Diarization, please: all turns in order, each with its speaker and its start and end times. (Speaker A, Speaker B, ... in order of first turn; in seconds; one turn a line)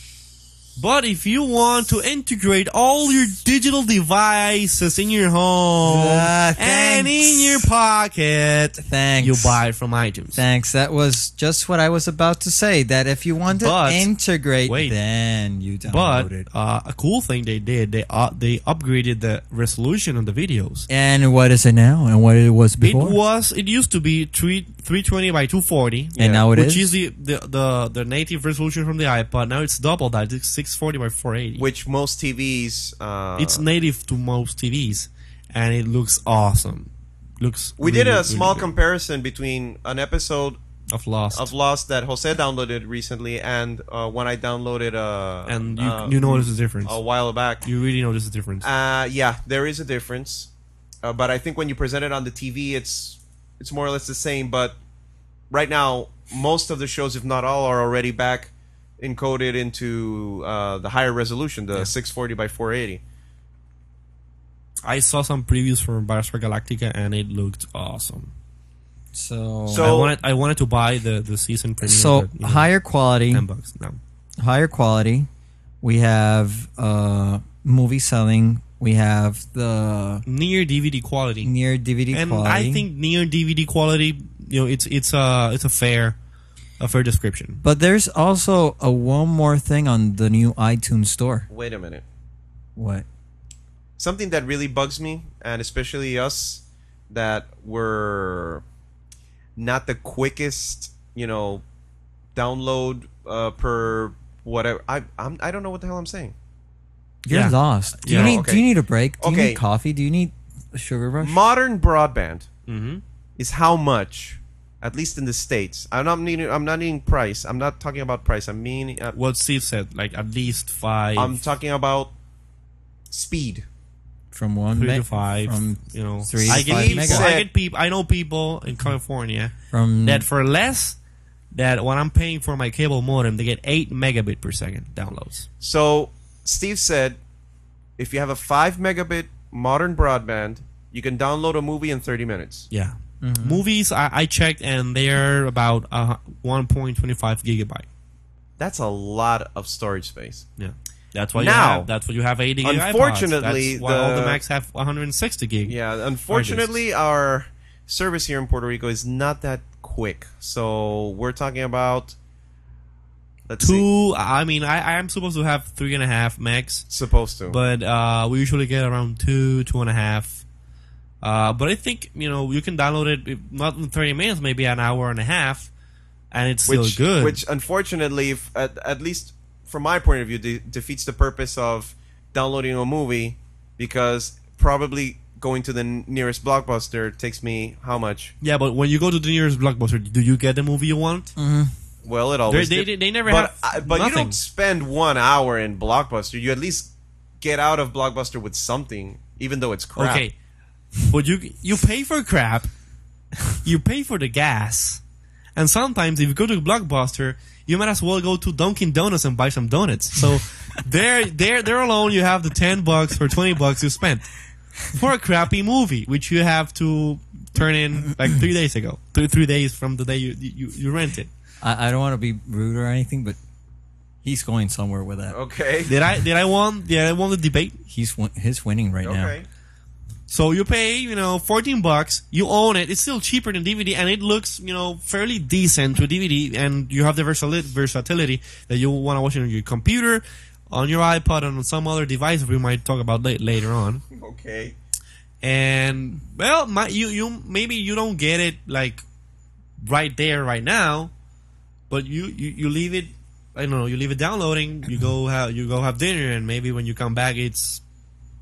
Speaker A: 0.8-10.4
Speaker B: 5.8-7.7
Speaker B: 8.8-9.6
Speaker B: 10.3-16.5
Speaker A: 13.5-14.1
Speaker A: 14.7-15.0
Speaker A: 15.9-20.9
Speaker B: 20.9-23.2
Speaker A: 22.8-31.7
Speaker C: 26.2-26.5
Speaker B: 26.2-26.9
Speaker C: 31.6-33.6
Speaker A: 33.4-38.7
Speaker C: 37.8-40.6
Speaker A: 40.9-41.5
Speaker C: 41.3-47.6
Speaker A: 45.5-47.0
Speaker A: 47.6-48.7
Speaker C: 48.6-50.5
Speaker C: 51.0-54.8
Speaker C: 55.5-63.0
Speaker A: 64.8-68.3
Speaker B: 69.1-69.9
Speaker C: 69.7-70.2
Speaker A: 69.7-72.7
Speaker B: 71.8-73.5
Speaker A: 73.3-74.0
Speaker B: 74.4-75.3
Speaker B: 75.8-80.2
Speaker A: 80.3-81.5
Speaker B: 81.4-82.9
Speaker A: 82.1-86.2
Speaker A: 86.8-87.6
Speaker B: 87.6-91.5
Speaker C: 91.5-92.0
Speaker B: 92.8-93.1
Speaker C: 94.0-98.6
Speaker C: 99.6-101.6
Speaker C: 102.3-106.3
Speaker B: 107.3-111.4
Speaker A: 107.3-108.4
Speaker C: 108.1-108.7
Speaker C: 109.2-109.6
Speaker C: 111.2-112.5
Speaker A: 112.7-113.0
Speaker C: 113.4-119.2
Speaker A: 119.1-121.4
Speaker C: 121.2-122.1
Speaker C: 123.1-123.7
Speaker B: 124.3-127.3
Speaker A: 124.8-129.5
Speaker C: 126.5-127.5
Speaker B: 129.7-130.3
Speaker A: 130.1-131.0
Speaker A: 131.5-135.5
Speaker C: 135.6-137.2
Speaker C: 138.0-142.7
Speaker A: 142.7-147.9
Speaker B: 143.2-143.6
Speaker C: 148.6-150.5
Speaker A: 150.6-155.8
Speaker C: 151.4-151.9
Speaker C: 152.6-154.4
Speaker C: 155.7-162.2
Speaker A: 156.3-156.7
Speaker C: 163.5-163.9
Speaker A: 163.6-166.9
Speaker C: 166.9-167.6
Speaker A: 167.5-170.4
Speaker A: 171.2-175.7
Speaker A: 176.3-177.4
Speaker C: 176.7-188.3
Speaker A: 188.4-191.3
Speaker B: 191.4-191.7
Speaker C: 192.0-196.9
Speaker A: 192.5-194.4
Speaker C: 197.4-200.3
Speaker A: 200.0-200.3
Speaker A: 201.1-202.7
Speaker A: 203.5-205.0
Speaker A: 205.6-214.2
Speaker A: 214.9-221.3
Speaker B: 221.6-223.4
Speaker B: 224.2-225.4
Speaker C: 225.3-225.9
Speaker A: 225.9-227.8
Speaker B: 227.9-229.3
Speaker C: 229.0-229.5
Speaker A: 230.3-244.0
Speaker C: 244.1-244.8
Speaker A: 245.4-249.0
Speaker A: 249.8-251.1
Speaker A: 251.9-257.8